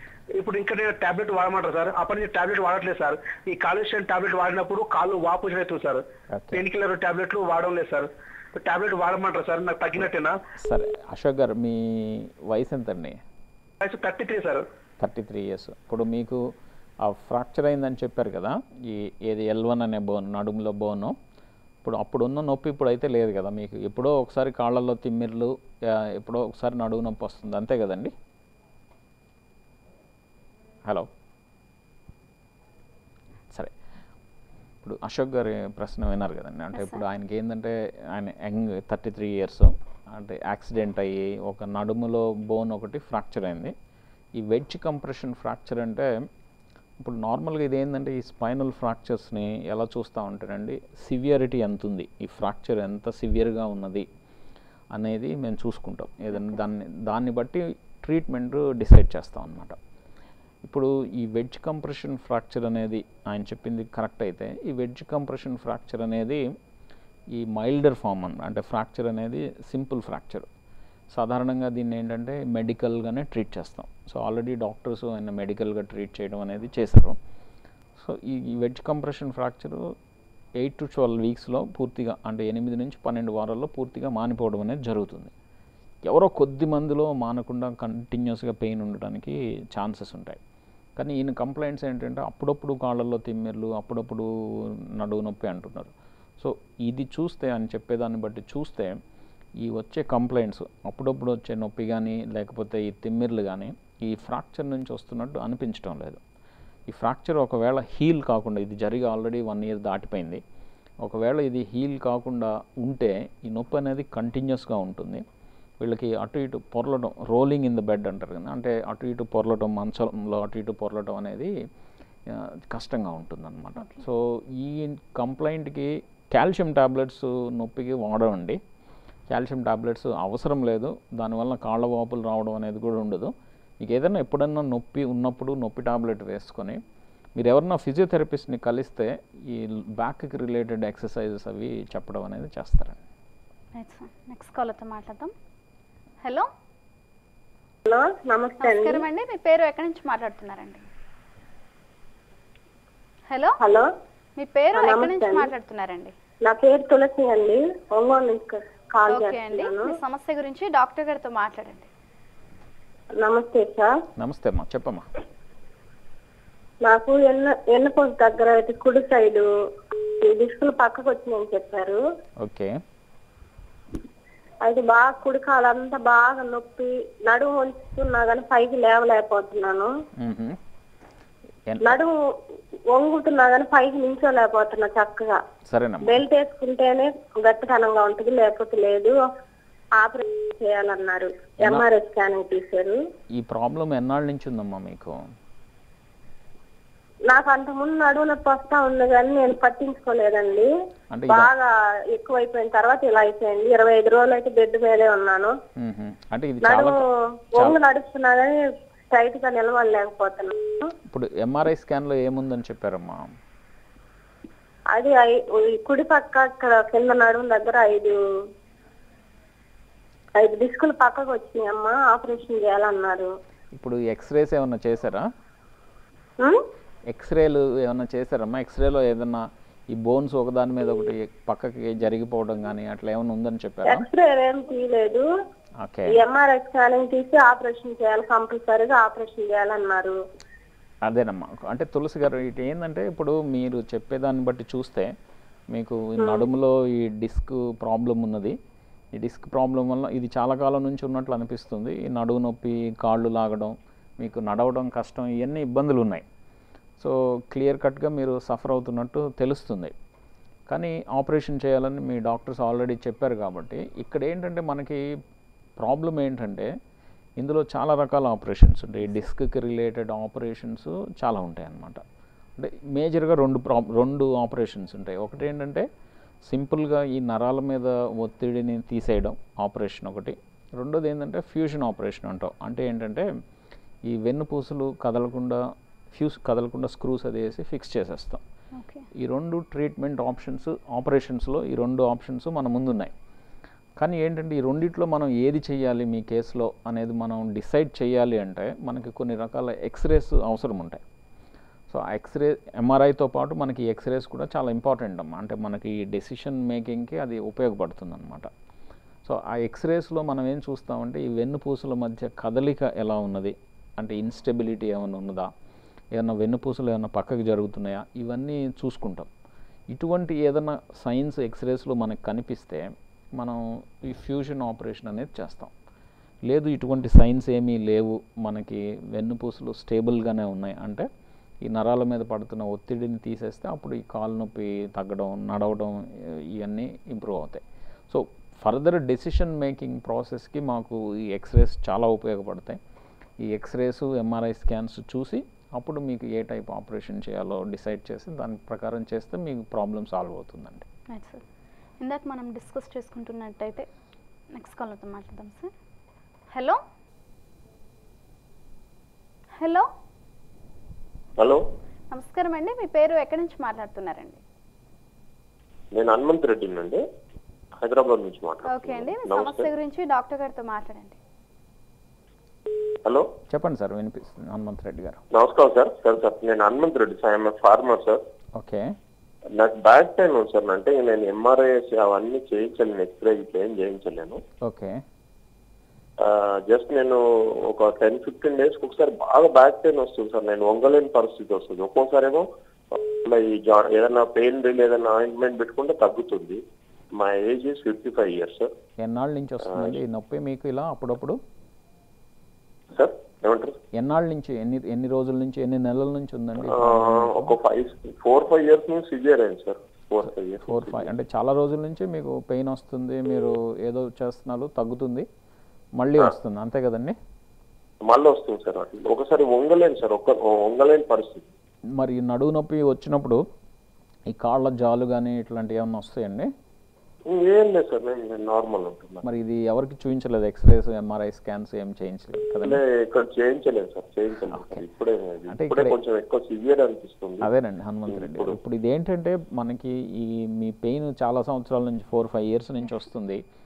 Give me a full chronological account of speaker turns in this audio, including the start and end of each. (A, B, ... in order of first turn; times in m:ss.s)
0:00.4-0:10.4 A
0:06.3-0:06.6 B
0:10.6-0:13.2 B
0:13.8-0:14.6 A
0:15.0-0:16.4 B
0:17.0-0:21.2 B
0:21.8-0:28.1 B
0:34.8-0:43.7 B
0:36.7-0:37.0 C
0:44.4-0:46.1 B
0:47.0-0:54.1 B
0:54.9-0:59.8 B
1:00.6-1:06.4 B
1:07.3-1:10.5 B
1:11.1-1:17.2 B
1:18.0-1:19.9 B
1:20.6-1:25.3 B
1:26.1-1:30.4 B
1:31.0-1:39.0 B
1:39.6-1:46.2 B
1:46.9-1:50.4 B
1:51.0-1:55.2 B
1:55.8-2:01.5 B
2:02.3-2:08.6 B
2:03.8-2:04.0 C
2:09.3-2:16.8 B
2:17.4-2:23.0 B
2:23.8-2:25.3 C
2:26.2-2:26.5 C
2:27.9-2:29.0 D
2:28.6-2:30.9 C
2:33.3-2:33.6 C
2:33.6-2:33.9 D
2:34.4-2:36.1 C
2:34.8-2:35.5 D
2:36.4-2:39.9 D
2:39.1-2:41.9 C
2:43.2-2:43.9 D
2:44.2-2:45.1 B
2:46.9-2:49.5 D
2:50.2-2:52.0 D
2:52.4-2:52.7 B
2:54.6-2:59.9 D
3:00.2-3:00.6 B
3:01.7-3:02.0 B
3:01.8-3:02.1 D
3:02.9-3:05.4 D
3:05.7-3:06.2 B
3:06.0-3:09.2 D
3:10.0-3:13.0 D
3:13.4-3:15.2 B
3:17.3-3:20.7 D
3:21.1-3:21.5 B
3:21.3-3:25.5 D
3:25.8-3:27.0 B
3:26.6-3:27.0 D
3:27.6-3:28.6 D
3:29.1-3:30.9 D
3:31.1-3:33.3 B
3:34.9-3:38.2 D
3:40.4-3:43.3 D
3:43.7-3:45.3 B
3:47.1-3:54.1 B
3:53.8-3:55.2 D
3:55.8-3:56.2 B
3:56.1-4:00.2 D
4:01.0-4:05.1 B
4:05.7-4:08.6 B
4:06.2-4:06.5 D
4:09.2-4:16.2 B
4:17.0-4:19.9 B
4:20.7-4:25.0 B
4:25.8-4:26.7 B
4:27.4-4:32.0 B
4:32.6-4:35.9 B
4:36.4-4:43.3 B
4:44.1-4:45.6 B
4:46.1-4:48.4 B
4:48.8-4:49.1 C
4:49.2-4:53.1 B
4:54.0-5:01.0 B
5:01.9-5:08.5 B
5:09.2-5:15.5 B
5:16.2-5:19.3 B
5:19.9-5:25.7 B
5:26.5-5:31.1 B
5:31.6-5:42.8 B
5:43.4-5:50.9 B
5:51.1-5:51.4 C
5:52.0-5:53.9 C
5:54.5-5:55.7 C
5:56.5-5:56.8 C
5:59.6-5:59.9 C
6:02.1-6:04.4 C
6:05.9-6:07.0 E
6:07.8-6:09.7 E
6:08.7-6:11.2 C
6:13.0-6:13.3 E
6:13.5-6:15.2 B
6:15.3-6:18.2 E
6:18.6-6:18.9 B
6:19.6-6:24.4 E
6:24.6-6:25.0 B
6:26.2-6:36.6 E
6:37.2-6:38.7 E
6:39.0-6:41.4 B
6:39.6-6:40.0 E
6:42.9-6:43.8 E
6:43.9-6:47.5 B
6:46.6-6:51.2 E
6:50.7-6:55.3 B
6:56.0-6:57.2 B
6:58.1-7:01.5 E
7:02.0-7:03.4 B
7:04.3-7:06.5 B
7:07.3-7:09.2 E
7:09.2-7:12.8 B
7:12.6-7:17.5 E
7:14.5-7:14.8 B
7:15.5-7:15.9 B
7:17.4-7:23.4 B
7:18.1-7:18.6 E